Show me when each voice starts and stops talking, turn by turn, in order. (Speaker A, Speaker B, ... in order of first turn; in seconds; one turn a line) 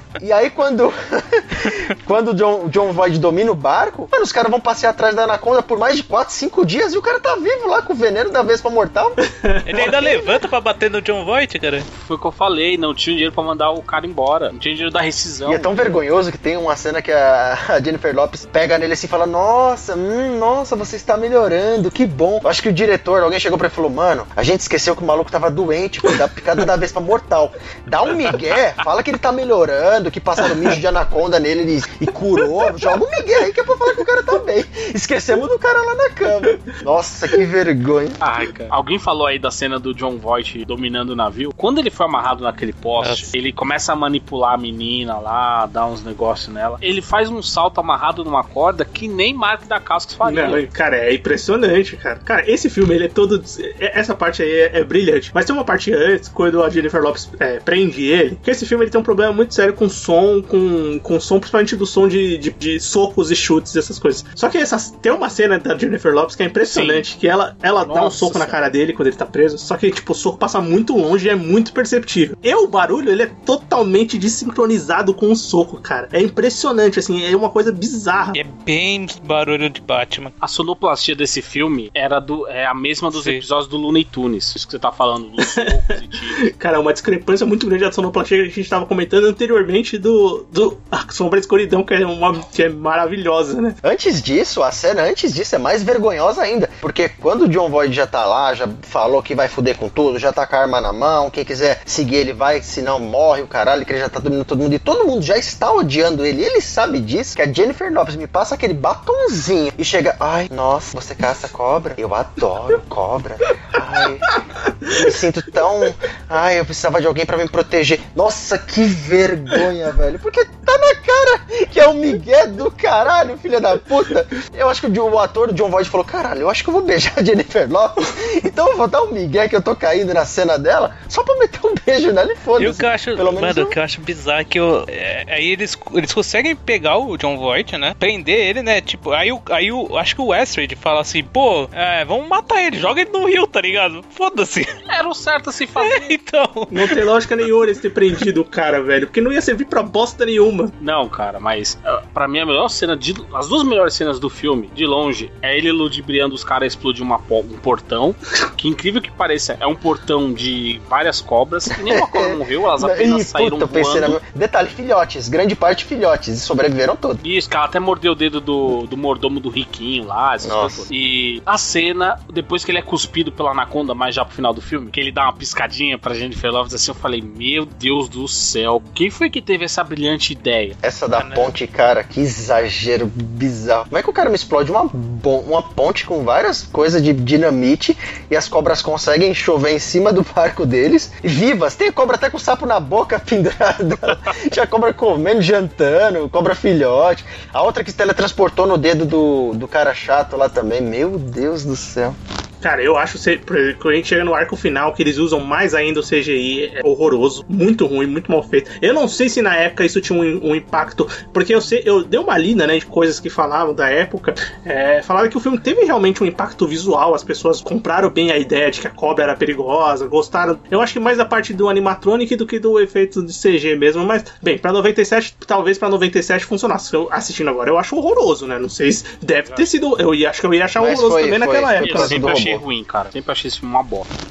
Speaker A: 0.2-9.2
Speaker B: 9.4-10.3
Speaker C: 9.7-11.9
Speaker D: 11.9-15.9
Speaker A: 15.5-38.2
Speaker D: 38.2-50.6
Speaker C: 43.0-43.3
Speaker B: 50.2-78.4
Speaker D: 66.7-67.0
Speaker D: 67.8-68.6
Speaker C: 78.3-80.3
Speaker D: 80.4-86.5
Speaker C: 83.1-83.4
Speaker B: 85.4-85.7
Speaker B: 86.3-93.8
Speaker A: 93.8-133.8
Speaker C: 132.6-144.7
Speaker D: 144.9-146.2
Speaker C: 145.8-147.1
Speaker B: 146.7-150.7
Speaker D: 150.8-164.2
Speaker A: 161.8-167.2
Speaker D: 167.2-180.8
Speaker A: 170.4-170.9
Speaker A: 180.8-202.2
Speaker C: 181.2-181.5
Speaker B: 202.6-232.3
Speaker A: 230.8-232.6
Speaker D: 231.8-234.1